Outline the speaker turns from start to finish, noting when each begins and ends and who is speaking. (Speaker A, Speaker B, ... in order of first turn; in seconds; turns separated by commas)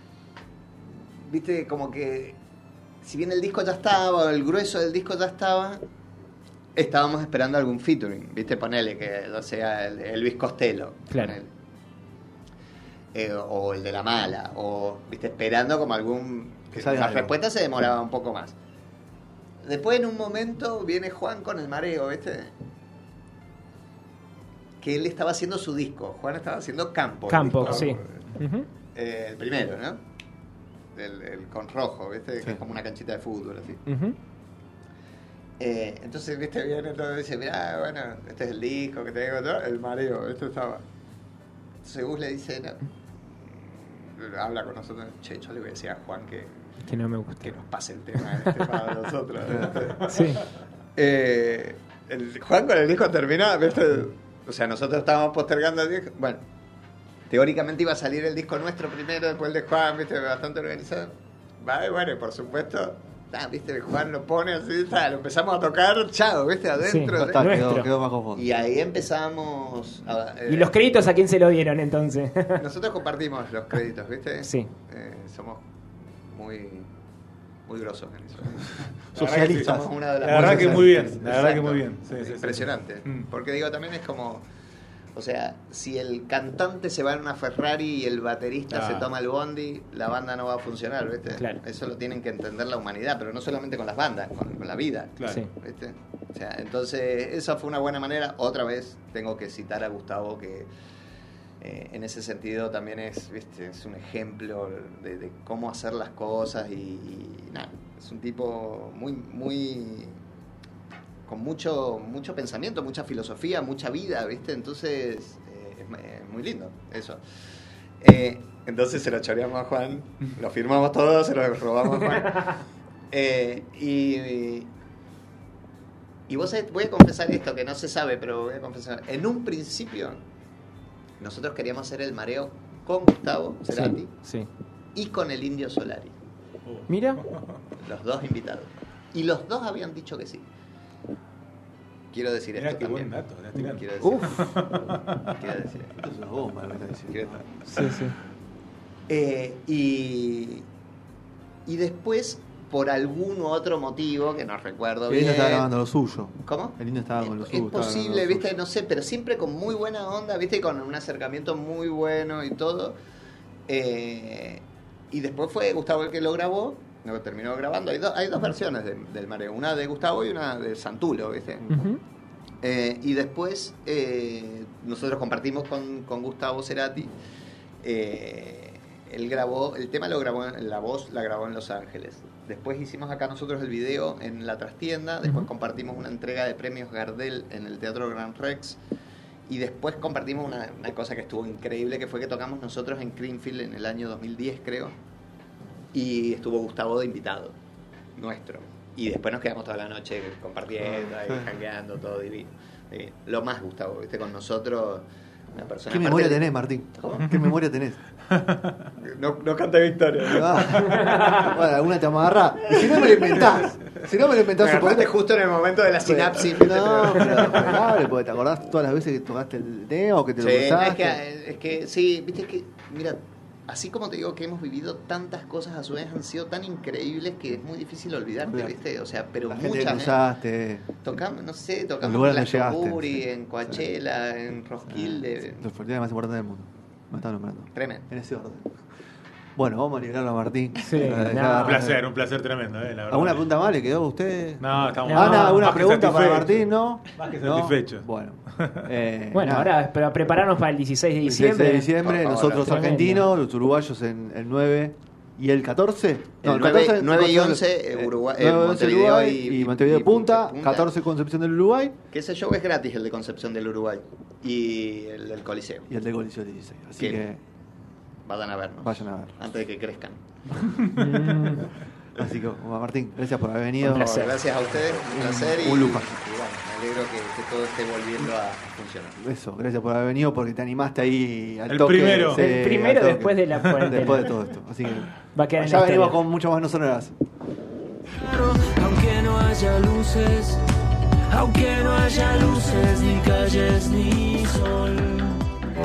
Speaker A: 1.2-2.4, Speaker A: 3.0-5.8, Speaker A: 6.8-11.5, Speaker B: 11.1-11.4, Speaker A: 13.1-18.5, Speaker C: 16.7-17.3, Speaker A: 19.6-22.5, Speaker A: 24.8-28.2, Speaker B: 27.3-28.7, Speaker A: 28.9-30.0, Speaker A: 30.9-33.8, Speaker B: 33.9-34.1, Speaker A: 35.6-40.8, Speaker A: 41.8-42.8, Speaker A: 44.1-46.5, Speaker B: 46.9-47.5, Speaker A: 47.4-50.2, Speaker B: 50.1-50.4, Speaker A: 51.0-56.4, Speaker A: 57.3-67.4, Speaker B: 66.8-67.9, Speaker C: 67.2-68.5, Speaker A: 68.3-70.7, Speaker B: 70.5-72.6, Speaker A: 72.6-75.6, Speaker B: 74.4-74.7, Speaker A: 76.2-76.9, Speaker A: 77.7-84.4, Speaker D: 79.1-83.3, Speaker C: 79.1-81.2, Speaker A: 85.1-100.7, Speaker D: 88.7-89.1, Speaker B: 91.3-91.6, Speaker A: 101.6-110.2, Speaker A: 111.2-117.2, Speaker A: 118.0-122.6, Speaker A: 123.1-124.7, Speaker A: 126.3-130.2, Speaker A: 131.2-134.1, Speaker B: 133.7-134.5, Speaker A: 134.9-136.1, Speaker D: 136.7-137.6, Speaker B: 136.9-137.2, Speaker A: 137.8-140.4, Speaker A: 142.1-144.5, Speaker D: 142.6-145.2, Speaker B: 144.0-144.5, Speaker A: 145.2-145.9, Speaker C: 145.9-147.4, Speaker A: 147.1-147.6, Speaker B: 147.7-148.1, Speaker A: 149.1-150.6, Speaker A: 151.7-155.7, Speaker C: 155.1-158.5, Speaker A: 156.4-163.0, Speaker A: 163.7-171.7, Speaker B: 171.7-172.0, Speaker A: 172.6-177.1, Speaker A: 177.8-188.8, Speaker A: 189.5-194.9, Speaker A: 195.9-197.5, Speaker A: 198.2-206.4, Speaker C: 200.8-201.4, Speaker C: 205.9-208.0, Speaker A: 207.0-207.3, Speaker D: 208.4-208.8, Speaker A: 209.0-211.5, Speaker C: 210.3-215.1, Speaker A: 212.7-213.4, Speaker A: 214.6-217.9, Speaker C: 216.0-221.2, Speaker A: 220.4-230.2, Speaker C: 228.5-228.8, Speaker C: 229.4-230.9, Speaker A: 231.0-235.6, Speaker C: 232.0-233.8, Speaker C: 234.8-238.8, Speaker A: 237.7-238.0, Speaker C: 239.6-242.0, Speaker B: 240.8-241.9, Speaker D: 241.6-243.4, Speaker C: 243.1-249.7, Speaker D: 244.6-248.1, Speaker B: 245.0-245.7, Speaker D: 248.6-248.8, Speaker B: 249.3-251.9, Speaker C: 251.2-262.0, Speaker A: 252.0-252.8, Speaker B: 252.6-253.3, Speaker A: 256.4-260.9, Speaker A: 262.1-265.9, Speaker C: 265.9-267.4, Speaker A: 268.2-270.2, Speaker C: 268.8-269.4, Speaker B: 270.9-271.7, Speaker C: 272.1-274.2, Speaker B: 273.8-274.4, Speaker A: 273.8-279.2, Speaker C: 275.1-276.1, Speaker C: 279.2-287.1, Speaker D: 281.7-282.4, Speaker B: 282.2-284.3, Speaker B: 285.3-286.2, Speaker E: 288.2-290.6, Speaker E: 291.3-295.4